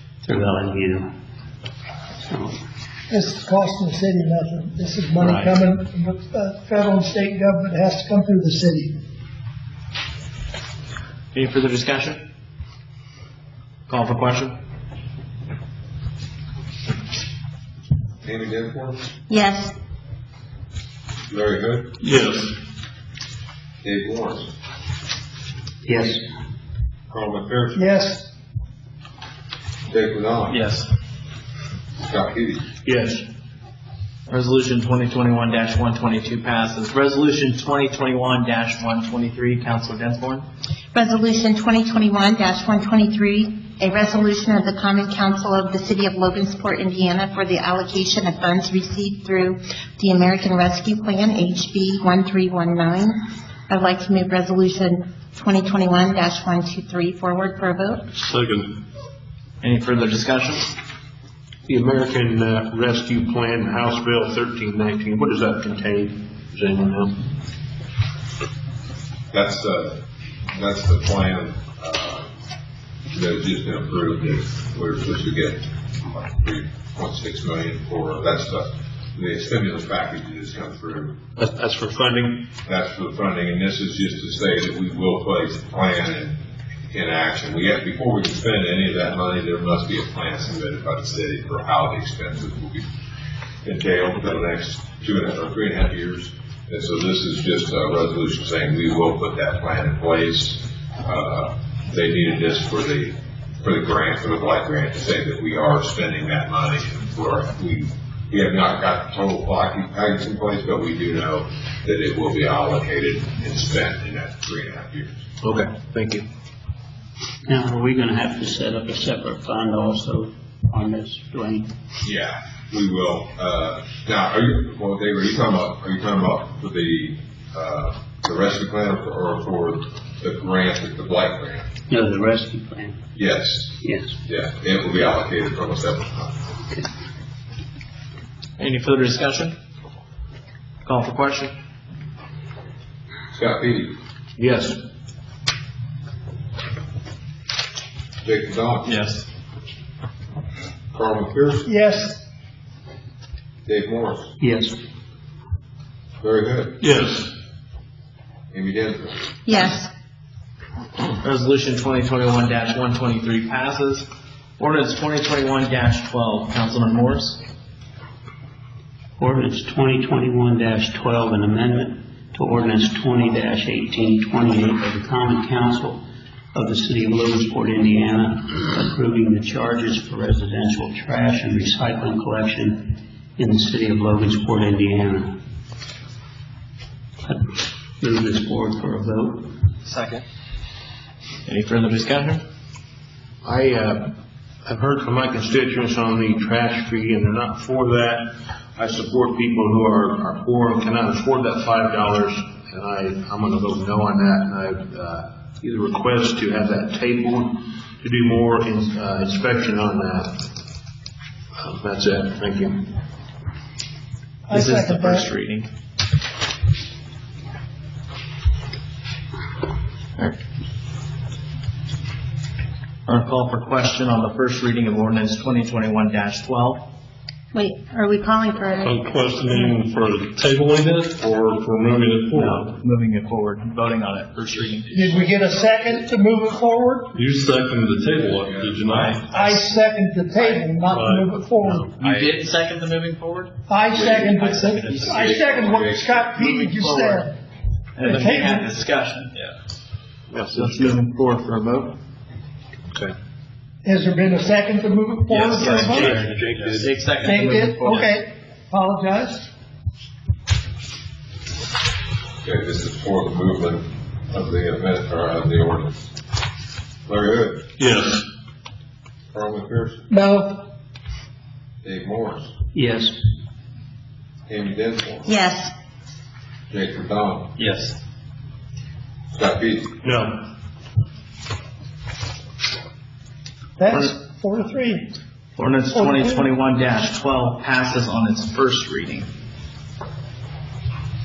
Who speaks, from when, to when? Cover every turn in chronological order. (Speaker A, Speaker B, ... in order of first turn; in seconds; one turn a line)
Speaker A: 0.2-1.1
Speaker A: 2.3-2.6
Speaker B: 3.1-9.0
Speaker C: 11.3-12.2
Speaker C: 13.9-14.6
Speaker D: 18.2-19.1
Speaker E: 19.3-19.7
Speaker D: 21.3-21.9
Speaker F: 22.0-22.5
Speaker D: 23.8-24.5
Speaker A: 25.8-26.2
Speaker D: 27.1-28.0
Speaker B: 27.8-28.3
Speaker D: 29.9-30.6
Speaker C: 30.5-30.9
Speaker D: 32.0-32.7
Speaker G: 32.9-33.2
Speaker C: 34.3-40.5
Speaker E: 40.9-53.1
Speaker E: 53.7-58.0
Speaker F: 58.2-58.8
Speaker C: 59.6-60.7
Speaker G: 61.7-67.3
Speaker D: 69.3-72.3
Speaker D: 73.1-81.2
Speaker G: 81.4-82.5
Speaker D: 82.7-92.9
Speaker D: 93.6-115.2
Speaker G: 115.4-116.3
Speaker A: 117.5-121.7
Speaker D: 122.0-131.7
Speaker A: 131.9-133.0
Speaker D: 133.2-136.5
Speaker A: 133.8-134.2
Speaker C: 138.6-139.6
Speaker C: 140.8-141.5
Speaker D: 143.3-144.0
Speaker G: 144.4-144.8
Speaker D: 148.2-149.1
Speaker C: 148.9-149.2
Speaker D: 150.9-151.7
Speaker B: 151.7-152.2
Speaker D: 153.7-154.3
Speaker A: 154.4-154.8
Speaker D: 156.2-156.8
Speaker F: 156.8-157.3
Speaker D: 158.5-159.3
Speaker E: 159.5-159.9
Speaker C: 161.2-164.1
Speaker C: 164.6-167.4
Speaker A: 169.2-176.0
Speaker A: 176.5-185.4
Speaker A: 187.2-189.5
Speaker C: 189.9-190.2
Speaker C: 191.5-192.4
Speaker G: 193.4-210.5
Speaker G: 211.6-213.0
Speaker B: 214.5-215.3
Speaker C: 214.5-215.7
Speaker C: 223.1-226.8
Speaker E: 227.5-229.0
Speaker F: 228.8-232.8
Speaker C: 232.3-235.3
Speaker B: 234.9-237.2
Speaker F: 237.1-239.3
Speaker D: 238.4-239.0
Speaker C: 238.9-239.7
Speaker B: 239.3-242.1
Speaker C: 240.4-240.6
Speaker F: 240.8-241.8
Speaker C: 242.0-245.7
Speaker B: 243.7-247.3
Speaker D: 245.1-246.2
Speaker C: 246.3-247.3
Speaker C: 248.0-249.3
Speaker B: 248.0-248.7
Speaker G: 250.3-250.9
Speaker C: 250.5-252.0
Speaker B: 253.8-256.3
Speaker C: 255.3-258.2
Speaker G: 255.5-256.9
Speaker B: 257.2-259.5
Speaker D: 262.4-266.1
Speaker D: 267.1-267.7
Speaker F: 267.8-268.2
Speaker D: 269.3-270.1
Speaker B: 270.1-270.7
Speaker D: 271.8-272.5
Speaker A: 272.7-273.2
Speaker D: 274.5-275.3
Speaker E: 275.3-275.7
Speaker D: 276.7-277.5
Speaker C: 277.6-278.0
Speaker D: 279.3-280.0
Speaker G: 280.0-280.4
Speaker B: 283.8-285.1
Speaker C: 285.6-289.3
Speaker B: 285.9-286.5